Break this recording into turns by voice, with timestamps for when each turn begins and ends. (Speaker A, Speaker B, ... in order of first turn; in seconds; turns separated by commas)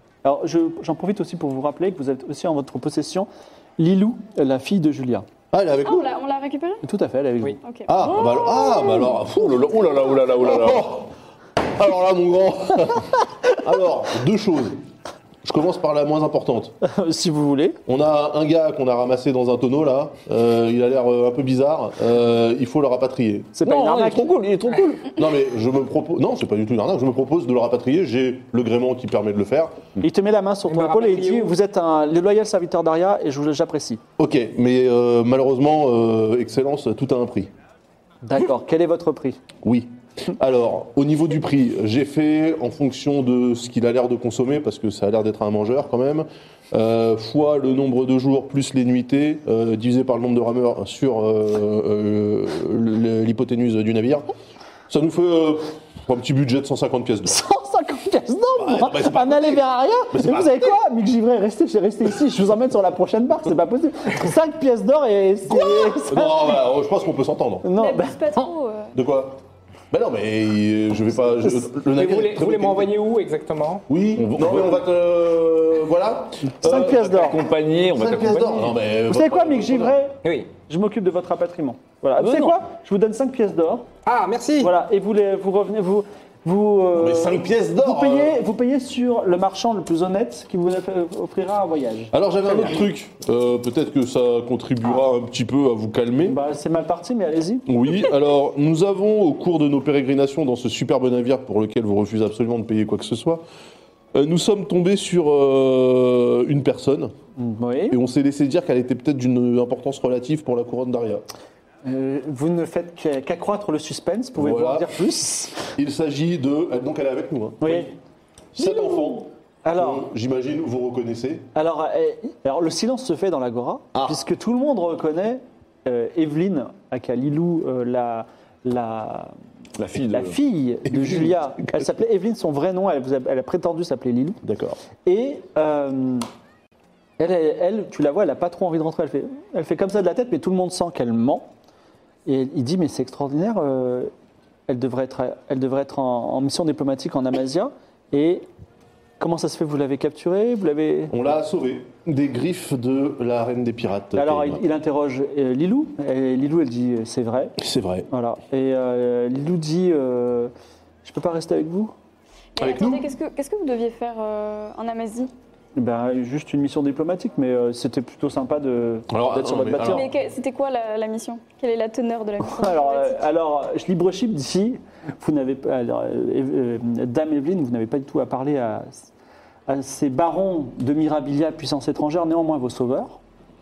Speaker A: 0.2-5.3, Speaker B: 5.5-6.1, Speaker C: 5.8-6.8, Speaker A: 6.8-7.6, Speaker C: 7.6-8.0, Speaker B: 7.9-14.8, Speaker D: 8.1-10.9, Speaker B: 15.4-16.7, Speaker A: 16.8-17.8, Speaker B: 17.9-23.5, Speaker A: 23.6-24.3, Speaker D: 23.6-25.1, Speaker B: 25.1-29.8, Speaker A: 30.0-34.0, Speaker E: 30.7-31.6, Speaker B: 34.2-37.5, Speaker A: 38.2-39.4, Speaker B: 39.6-54.2, Speaker B: 54.9-57.4, Speaker A: 57.3-66.6, Speaker B: 58.6-60.7, Speaker B: 65.5-67.7, Speaker A: 67.6-68.5, Speaker C: 67.7-68.9, Speaker B: 68.9-69.4, Speaker B: 69.9-72.9, Speaker E: 71.8-73.8, Speaker B: 73.9-77.2, Speaker D: 74.2-74.8, Speaker A: 76.5-77.4, Speaker D: 76.6-78.8, Speaker B: 77.7-80.0, Speaker A: 79.1-83.9, Speaker E: 80.2-80.5, Speaker D: 82.2-82.6, Speaker E: 84.0-84.7, Speaker A: 84.6-92.8, Speaker B: 86.9-88.4, Speaker B: 92.1-96.4, Speaker A: 96.3-97.7, Speaker B: 97.7-103.4, Speaker B: 104.1-107.1, Speaker A: 107.4-108.0, Speaker B: 107.9-111.2, Speaker A: 111.8-115.7, Speaker B: 114.4-115.0, Speaker B: 115.8-117.9, Speaker A: 117.6-117.9, Speaker B: 118.6-121.5, Speaker A: 119.6-120.1, Speaker A: 121.5-129.3, Speaker D: 129.8-130.4, Speaker A: 130.1-134.4, Speaker B: 130.8-131.9, Speaker B: 134.4-134.8, Speaker A: 135.1-136.3, Speaker A: 137.2-141.5, Speaker A: 142.3-144.1, Speaker A: 144.7-148.5, Speaker A: 149.2-151.2, Speaker B: 151.1-154.6, Speaker A: 154.2-157.6, Speaker B: 157.6-158.1, Speaker A: 158.1-160.5, Speaker A: 161.1-161.9, Speaker C: 162.6-165.3, Speaker B: 162.6-163.1, Speaker A: 165.8-170.1, Speaker B: 169.1-170.1, Speaker C: 169.8-173.3, Speaker A: 172.4-179.1, Speaker A: 179.7-183.2